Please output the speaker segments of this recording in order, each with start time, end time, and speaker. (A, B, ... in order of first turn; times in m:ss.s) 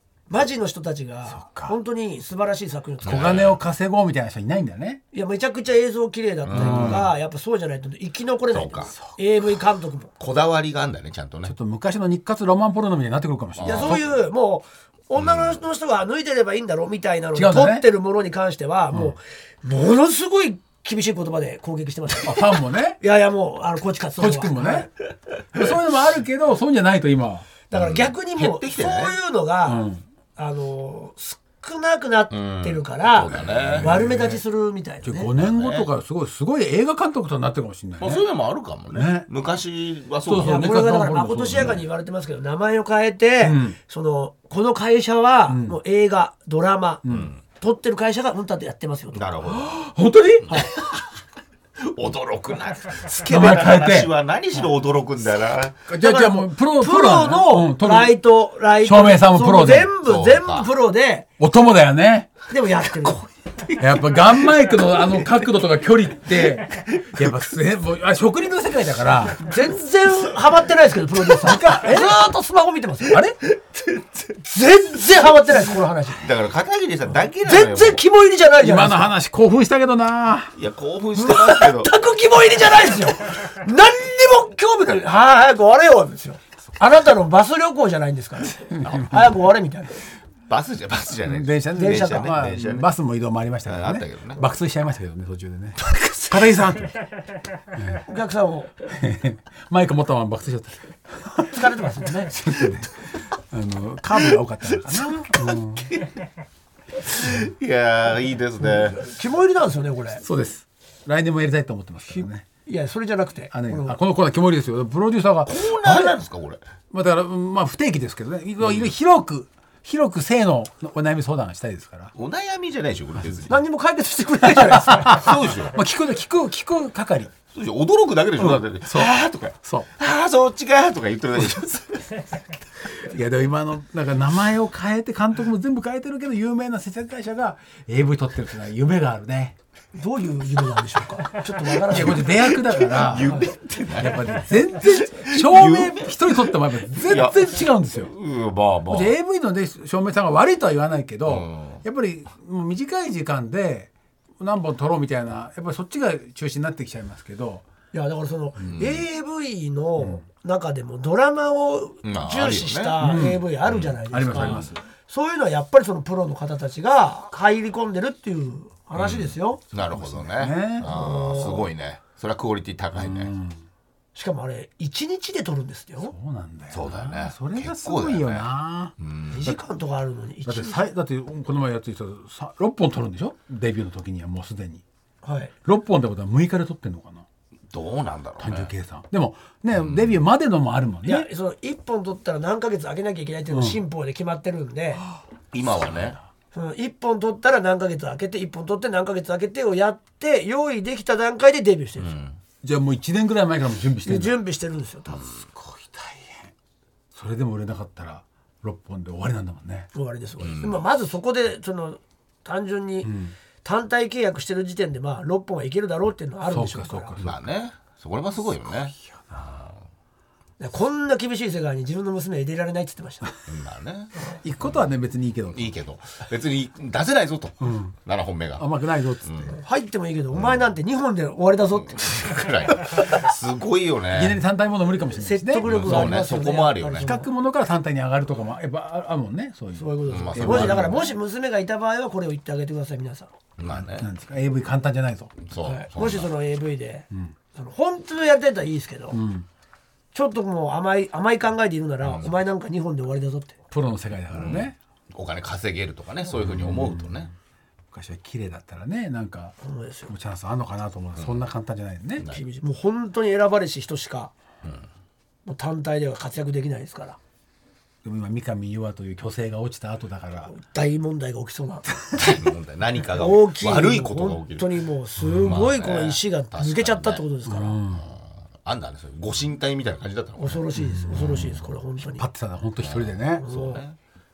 0:00.3-0:03.5 A
0:01.3-0:01.8 B
0:03.0-0:03.6 C
0:03.0-0:05.0 B
0:05.1-0:10.1 A
0:06.4-0:07.1 C
0:06.5-0:07.1 B
0:08.5-0:08.9 C
0:10.2-0:11.5 C
0:11.4-0:14.0 B
0:13.6-0:14.1 C
0:13.6-0:24.9 A
0:15.2-0:15.6 C
0:17.3-0:17.8 B
0:22.2-0:23.0 B
0:24.2-0:24.9 B
0:25.5-0:27.5 B
0:27.7-0:29.8 A
0:27.7-0:29.2 C
0:29.6-0:30.0 B
0:30.4-0:35.3 A
0:32.3-0:33.9 C
0:33.5-0:34.4 B
0:35.0-0:38.2 B
0:35.4-0:35.9 C
0:38.0-0:40.8 C
0:38.9-0:39.3 B
0:40.2-0:41.8 B
0:40.4-0:47.0 A
0:41.5-0:41.8 C
0:43.4-0:43.8 B
0:45.5-0:45.8 B
0:47.0-0:47.3 B
0:47.1-0:47.4 C
0:47.6-0:49.2 A
0:49.1-0:49.7 C
0:49.5-0:50.8 B
0:50.5-0:50.7 C
0:51.8-0:55.8 C
0:53.2-0:54.1 B
0:55.9-0:58.2 B
0:56.0-1:01.3 A
0:58.8-0:59.9 B
1:00.0-1:00.7 C
1:01.4-1:02.4 B
1:02.5-1:03.2 A
1:03.8-1:09.4 B
1:09.4-1:13.2 A
1:11.4-1:12.2 B
1:13.1-1:13.4 B
1:14.4-1:16.3 A
1:16.2-1:18.0 C
1:17.4-1:19.1 A
1:18.6-1:20.5 B
1:20.6-1:21.9 C
1:21.2-1:30.0 A
1:28.7-1:29.3 B
1:30.5-1:32.9 C
1:31.3-1:37.0 B
1:31.8-1:32.3 A
1:33.6-1:34.4 C
1:37.7-1:38.0 B
1:38.0-1:38.7 A
1:38.9-1:41.6 B
1:41.5-1:42.4 A
1:42.1-1:43.0 B
1:43.5-1:45.9 B
1:47.0-1:49.0 C
1:48.9-1:50.2 A
1:50.2-1:52.4 B
1:52.6-1:54.0 A
1:53.5-1:56.1 B
1:55.4-1:56.6 C
1:56.9-2:02.1 B
1:58.6-1:58.9 C
2:02.1-2:03.6 C
2:03.5-2:05.3 A
2:04.4-2:07.3 B
2:05.0-2:05.8 C
2:07.5-2:12.2 C
2:08.4-2:09.1 B
2:09.6-2:09.9 B
2:13.0-2:19.6 B
2:19.9-2:22.6 A
2:21.8-2:23.4 B
2:22.1-2:29.2 C
2:23.2-2:23.5 A
2:24.0-2:28.1 B
2:28.9-2:37.6 B
2:31.2-2:31.8 C
2:37.9-2:49.6 A
2:38.6-2:39.0 C
2:42.0-2:43.0 C
2:43.0-2:43.4 B
2:43.6-2:44.7 C
2:44.1-2:44.8 B
2:49.0-2:53.3 C
2:49.9-2:50.9 B
2:50.8-2:51.7 A
2:52.9-2:53.6 B
2:54.1-2:56.1 A
2:56.0-2:58.9 B
2:56.7-2:59.5 C
2:59.3-3:00.9 A
3:00.4-3:04.8 B
3:05.2-3:05.5 A
3:05.6-3:07.2 B
3:07.7-3:08.7 C
3:08.4-3:11.3 B
3:09.7-3:10.2 C
3:11.0-3:15.0 A
3:13.5-3:13.8 B
3:15.5-3:16.2 C
3:15.8-3:16.2 B
3:16.5-3:22.1 A
3:22.0-3:22.4 C
3:22.6-3:24.4 B
3:24.0-3:25.2 A
3:25.3-3:26.5 B
3:27.1-3:29.9 B
3:29.9-3:33.1 A
3:30.4-3:30.8 C
3:33.0-3:33.3 B
3:33.6-3:37.1 A
3:36.5-3:37.4 B
3:37.2-3:39.7 C
3:39.0-3:39.4 B
3:40.6-3:43.3 A
3:43.5-3:44.8 C
3:44.4-3:45.7 B
3:45.5-3:48.7 C
3:47.6-3:47.9 B
3:48.6-3:49.5 B
3:49.2-3:49.5 C
3:49.6-3:52.5 A
3:50.3-3:50.7 C
3:51.8-3:54.4 C
3:54.1-3:56.3 B
3:55.2-3:57.3 A
3:55.6-3:57.1 C
3:57.0-4:00.9 B
3:59.8-4:03.3 A
4:00.1-4:01.1 C
4:03.6-4:04.1 C
4:03.7-4:05.4 B
4:05.4-4:06.3 C
4:05.6-4:09.2 A
4:09.1-4:09.4 B
4:10.1-4:13.6 A
4:12.0-4:12.3 C
4:13.7-4:14.8 B
4:14.3-4:17.3 C
4:16.4-4:17.3 B
4:17.9-4:19.6 B
4:19.6-4:20.1 A
4:20.1-4:22.3 B
4:21.2-4:21.4 C
4:22.2-4:22.4 C
4:22.3-4:24.3 A
4:25.4-4:27.2 A
4:28.0-4:30.5 B
4:30.5-4:31.9 A
4:32.1-4:34.7 C
4:33.2-4:37.8 A
4:35.2-4:35.5 B
4:35.4-4:37.2 C
4:37.4-4:38.0 B
4:38.0-4:41.6 C
4:40.4-4:42.2 A
4:40.8-4:41.5 B
4:42.0-4:43.4 B
4:42.8-4:44.0 C
4:43.4-4:43.8 A